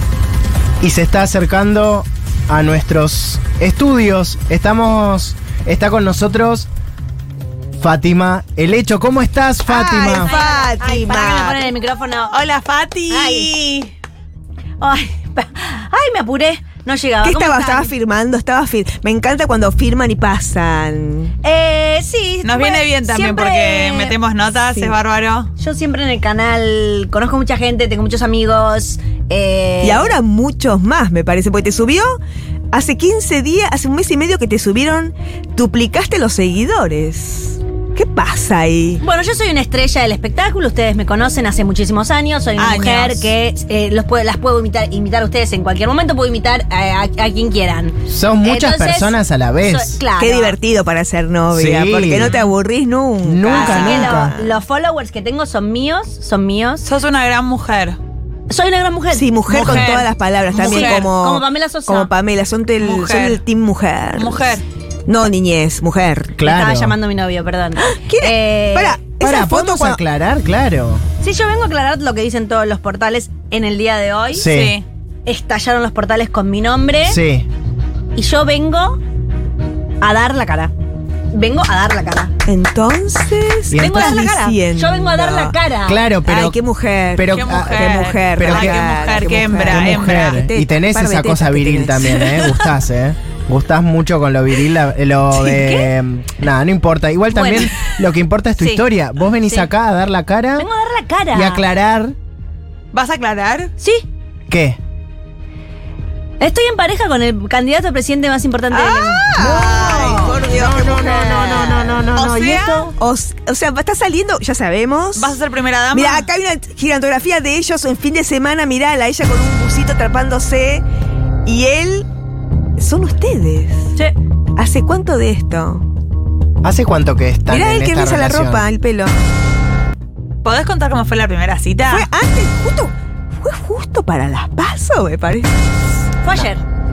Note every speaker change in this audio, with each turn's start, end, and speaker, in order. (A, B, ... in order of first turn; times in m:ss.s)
0:00.8-0:06.7 A
0:07.8-0:10.3 A
0:09.7-0:11.6 B
0:10.2-0:12.4 C
0:12.3-0:13.5 D
0:13.1-0:13.9 C
0:14.8-0:17.9 C
0:17.2-0:21.3 B
0:21.4-0:24.2 C
0:22.4-0:25.5 D
0:25.6-0:30.1 C
0:29.8-0:32.2 B
0:32.7-0:39.0 B
0:39.0-0:50.6 C
0:42.6-0:43.3 D
0:48.1-0:50.0 A
0:50.2-0:54.5 B
0:51.5-0:52.3 A
0:52.2-0:52.5 D
0:53.2-0:54.4 A
0:53.4-0:56.9 C
0:56.8-0:58.0 D
0:58.5-0:59.9 C
0:59.1-1:06.4 B
0:59.5-1:01.1 D
0:59.6-0:59.8 A
1:00.6-1:02.1 C
1:02.8-1:03.4 D
1:04.2-1:04.6 D
1:06.4-1:07.0 A
1:06.4-1:09.0 C
1:07.8-1:10.0 B
1:09.2-1:11.0 A
1:11.2-1:14.5 C
1:14.3-1:14.8 A
1:14.4-1:14.8 D
1:15.2-1:17.2 C
1:17.0-1:17.5 A
1:18.1-1:19.0 C
1:20.0-1:20.7 C
1:21.3-1:22.3 C
1:22.4-1:25.6 B
1:23.7-1:24.1 A
1:23.7-1:26.0 C
1:25.8-1:26.6 A
1:26.2-1:32.4 B
1:27.1-1:28.9 A
1:27.3-1:30.4 D
1:29.5-1:40.7 A
1:35.4-1:35.9 C
1:37.3-1:37.7 C
1:38.6-1:38.8 C
1:39.4-1:39.7 C
1:40.6-1:41.6 C
1:41.3-1:42.1 A
1:42.9-1:43.7 D
1:43.8-1:44.0 C
1:44.5-1:44.8 A
1:46.4-1:49.4 C
1:48.7-1:52.0 B
1:49.3-1:52.9 A
1:49.4-1:50.4 D
1:52.1-1:52.9 D
1:52.9-1:55.4 B
1:55.1-1:56.3 D
1:55.9-2:00.8 B
2:01.4-2:02.1 B
2:02.8-2:03.9 B
2:04.6-2:05.8 B
2:06.6-2:08.6 A
2:07.5-2:09.2 B
2:10.4-2:12.1 D
2:11.9-2:15.9 B
2:16.2-2:16.6 C